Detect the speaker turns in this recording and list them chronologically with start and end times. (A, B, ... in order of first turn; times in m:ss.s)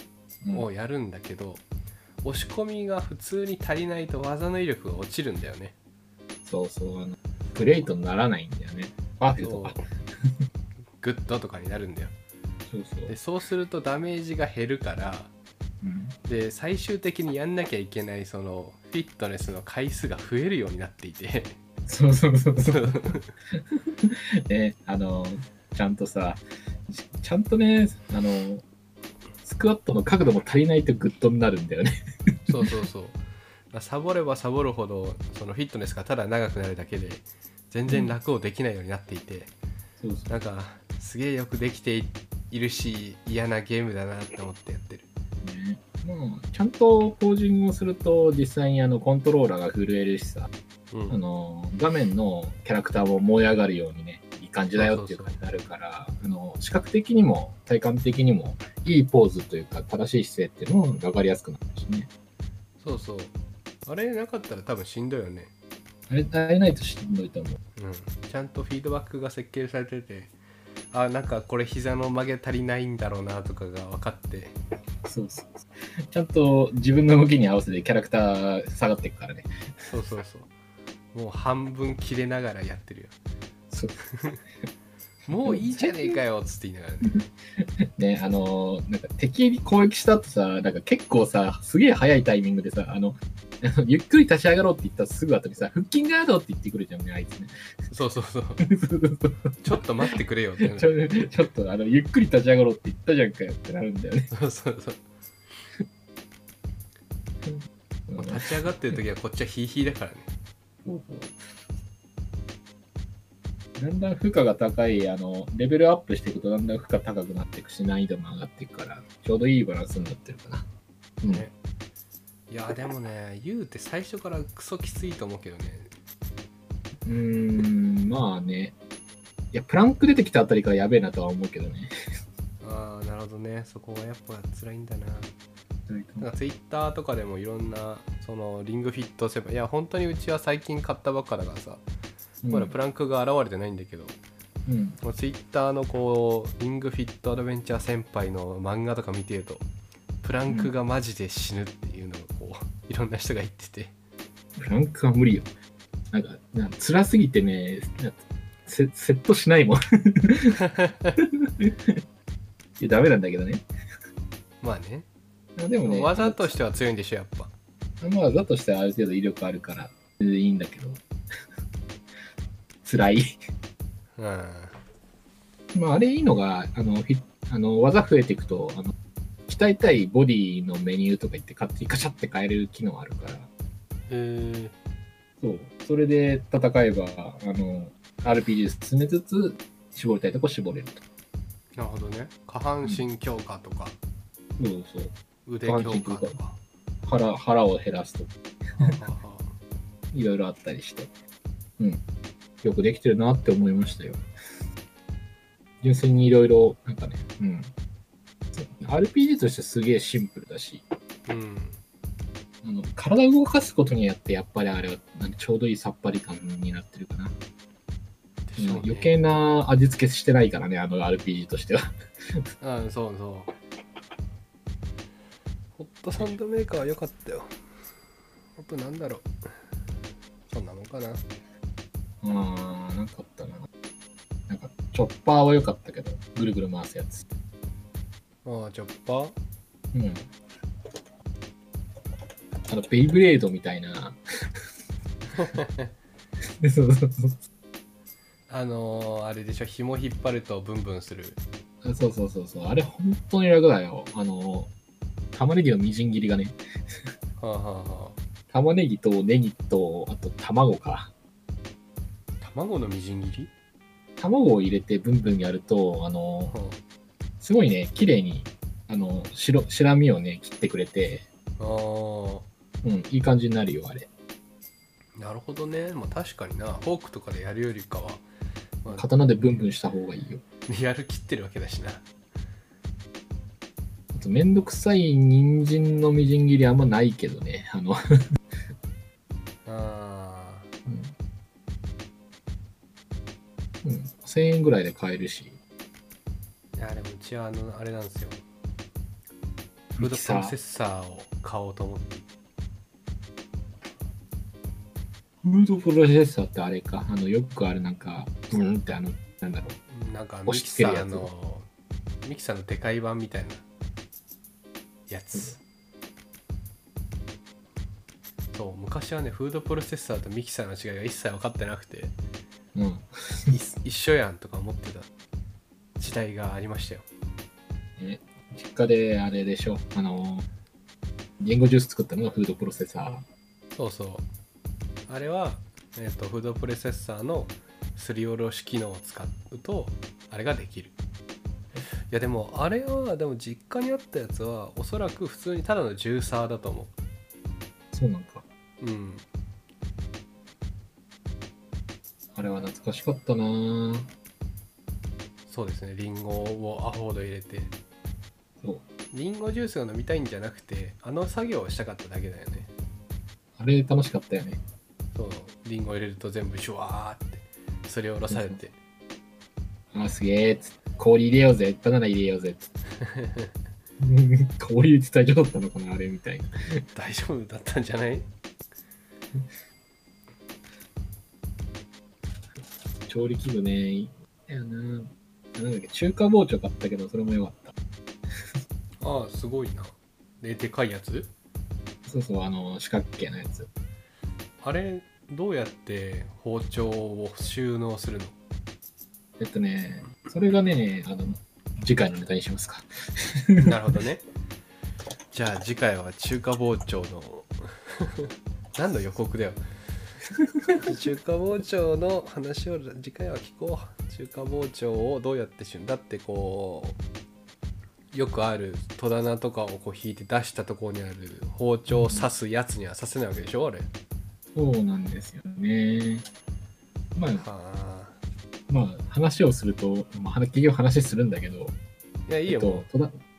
0:00.5-0:01.6 A
0:02.2-0:05.7 A
0:06.4-0:09.8 B
0:09.4-0:09.8 A
0:11.0-0:12.1 A
0:12.7-0:13.1 B
0:13.1-0:15.3 A
0:15.8-0:16.1 B
0:16.2-0:21.6 A
0:21.8-0:28.6 B
0:22.6-0:23.3 A
0:29.4-0:31.9 B
0:32.4-0:33.2 A
0:33.7-0:39.5 A
0:37.9-0:38.2 B
0:40.0-0:40.3 B
0:40.3-0:45.1 A
0:45.4-0:50.5 B
0:50.9-0:51.2 A
0:51.1-1:02.1 B
0:54.8-0:55.4 A
1:02.8-1:05.5 A
1:06.1-1:07.6 B
1:07.8-1:10.3 A
1:10.9-1:14.6 A
1:15.0-1:19.5 B
1:19.8-1:20.5 A
1:21.1-1:23.1 A
1:23.7-1:24.0 B
1:25.3-1:27.2 A
1:25.4-1:26.2 B
1:27.6-1:37.5 B
1:37.9-1:38.6 A
1:38.6-1:39.6 B
1:39.6-1:41.3 A
1:40.6-1:44.3 B
1:44.3-1:45.0 A
1:47.4-1:49.0 B
1:48.2-1:50.3 A
1:50.8-1:51.3 B
1:53.8-2:00.7 B
2:01.2-2:01.5 A
2:02.5-2:05.9 A
2:07.0-2:08.8 B
2:09.5-2:11.9 B
2:12.6-2:15.3 A
2:15.9-2:16.3 B
2:16.2-2:21.8 A
2:22.4-2:22.7 B
2:22.5-2:24.2 A
2:24.6-2:25.0 B
2:25.0-2:29.6 A
2:30.2-2:33.9 A
2:34.6-2:35.5 B
2:36.1-2:40.6 B
2:40.7-2:41.1 A
2:41.2-2:42.0 B
2:42.8-2:43.6 B
2:44.6-2:45.0 A
2:45.6-2:46.5 B
2:45.8-2:47.5 A
2:48.0-2:51.0 B
2:52.8-2:53.4 B
2:54.2-2:54.8 A
2:55.7-2:58.9 B
2:59.5-3:03.5 B
3:04.1-3:04.7 A
3:05.4-3:11.0 B
3:11.8-3:14.0 A
3:14.6-3:16.4 B
3:15.4-3:16.6 A
3:17.0-3:18.3 B
3:18.8-3:19.5 A
3:20.1-3:21.1 B
3:22.6-3:24.2 B
3:25.8-3:27.7 B
3:28.5-3:30.8 B
3:31.3-3:31.8 A
3:32.6-3:37.3 B
3:38.5-3:39.2 A
3:38.6-3:42.4 B
3:42.6-3:43.5 A
3:45.8-3:47.5 A
3:48.6-3:49.3 A
3:50.5-3:51.2 A
3:52.2-3:53.7 B
3:54.5-3:57.3 B
3:58.4-3:59.4 A
3:59.9-4:00.3 B
4:02.7-4:04.2 B
4:05.3-4:05.9 A
4:06.6-4:07.4 B
4:08.5-4:11.4 A
4:11.8-4:14.7 B
4:15.3-4:16.6 B
4:17.4-4:18.2 A
4:18.5-4:21.1 B
4:22.4-4:23.5 A
4:24.2-4:26.5 B
4:26.5-4:26.8 A
4:27.4-4:31.3 B
4:31.6-4:32.5 A
4:32.8-4:34.1 B
4:35.2-4:38.2 A
4:38.9-4:40.4 B
4:40.7-4:42.0 A
4:44.1-4:48.0 B
4:49.6-4:50.7 A
4:50.9-4:51.1 B
4:53.8-4:55.6 B
4:56.8-4:58.4 A
4:59.9-5:00.5 B
5:00.0-5:02.3 A
5:05.4-5:09.8 B
5:09.9-5:11.6 A
5:10.4-5:11.3 B
5:12.2-5:13.6 A
5:15.1-5:15.6 A
5:18.5-5:22.1 A
5:22.7-5:23.5 B
5:23.5-5:25.1 A
5:26.0-5:27.1 A
5:28.0-5:30.5 B
5:31.4-5:33.2 B
5:33.7-5:34.3 A
5:35.1-5:40.9 A
5:42.1-5:46.9 A
5:47.9-5:48.4 B
5:48.8-5:49.2 A
5:52.4-5:54.1 B
5:55.5-5:57.7 A
5:59.1-6:02.7 A
6:03.6-6:04.6 B
6:05.1-6:08.7 A
6:08.3-6:08.6 B
6:09.9-6:12.7 B
6:13.0-6:13.5 A
6:14.0-6:16.8 B
6:16.9-6:18.3 A
6:23.1-6:27.7 B
6:29.0-6:31.3 A
6:32.1-6:33.7 B
6:34.6-6:38.3 A
6:39.4-6:43.8 B
6:43.6-6:44.2 A
6:45.3-6:49.6 A
6:50.7-6:57.0 A
6:58.1-7:03.9 A
7:01.9-7:02.2 B
7:04.5-7:06.3 B
7:07.1-7:07.4 B
7:07.3-7:08.2 A
7:08.7-7:11.7 B
7:12.3-7:12.9 A
7:12.5-7:13.1 B